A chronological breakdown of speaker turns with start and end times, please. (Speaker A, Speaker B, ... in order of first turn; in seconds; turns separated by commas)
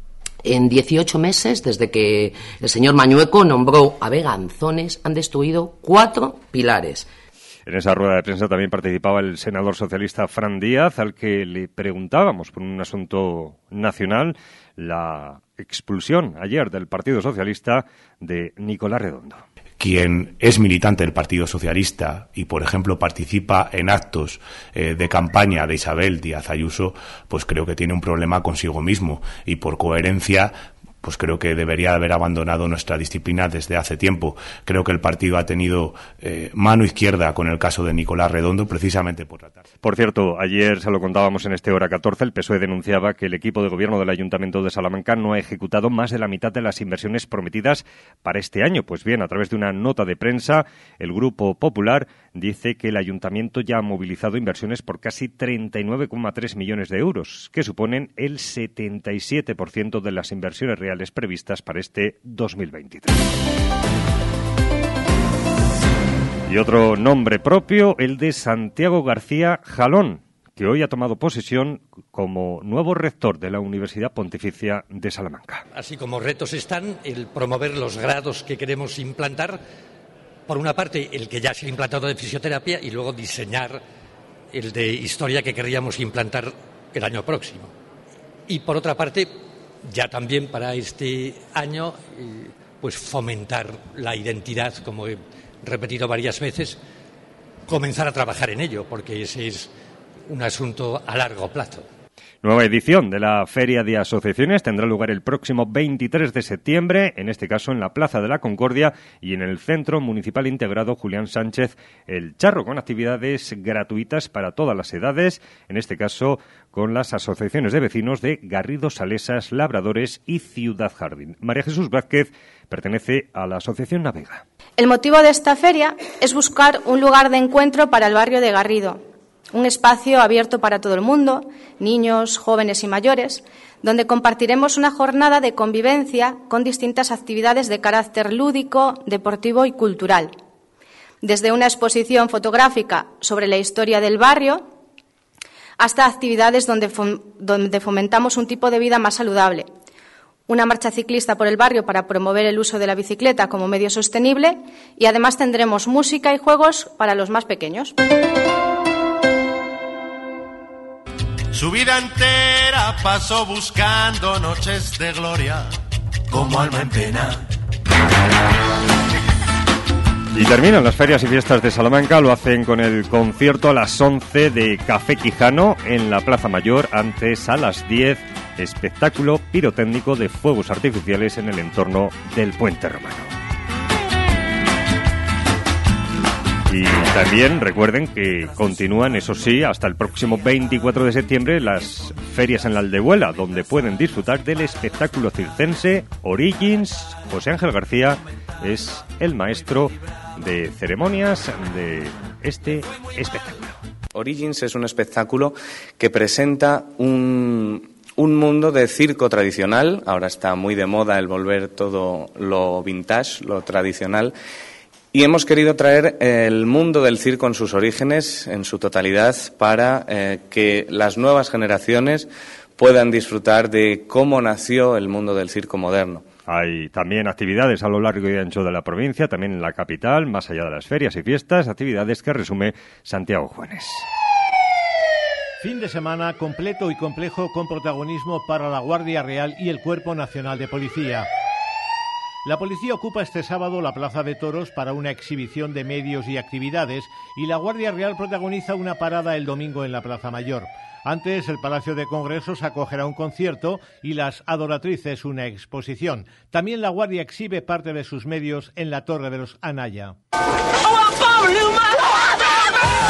Speaker A: 0.4-7.1, Speaker B: 7.7-19.4, Speaker C: 19.8-39.6, Speaker B: 39.8-63.2, Speaker B: 66.5-75.6, Speaker D: 75.7-79.6, Speaker D: 80.5-83.8, Speaker D: 84.5-87.7, Speaker D: 88.5-96.8, Speaker D: 97.7-99.7, Speaker D: 100.3-101.8, Speaker B: 102.4-124.4, Speaker E: 124.8-129.0, Speaker E: 129.5-140.3, Speaker E: 141.2-144.6, Speaker E: 145.8-149.7, Speaker E: 150.5-157.9, Speaker F: 161.5-165.7, Speaker F: 166.3-167.4, Speaker B: 170.3-183.3, Speaker B: 186.7-203.8, Speaker G: 204.1-214.3, Speaker G: 215.1-226.2, Speaker B: 226.5-234.1, Speaker H: 235.6-241.3, Speaker H: 242.4-260.1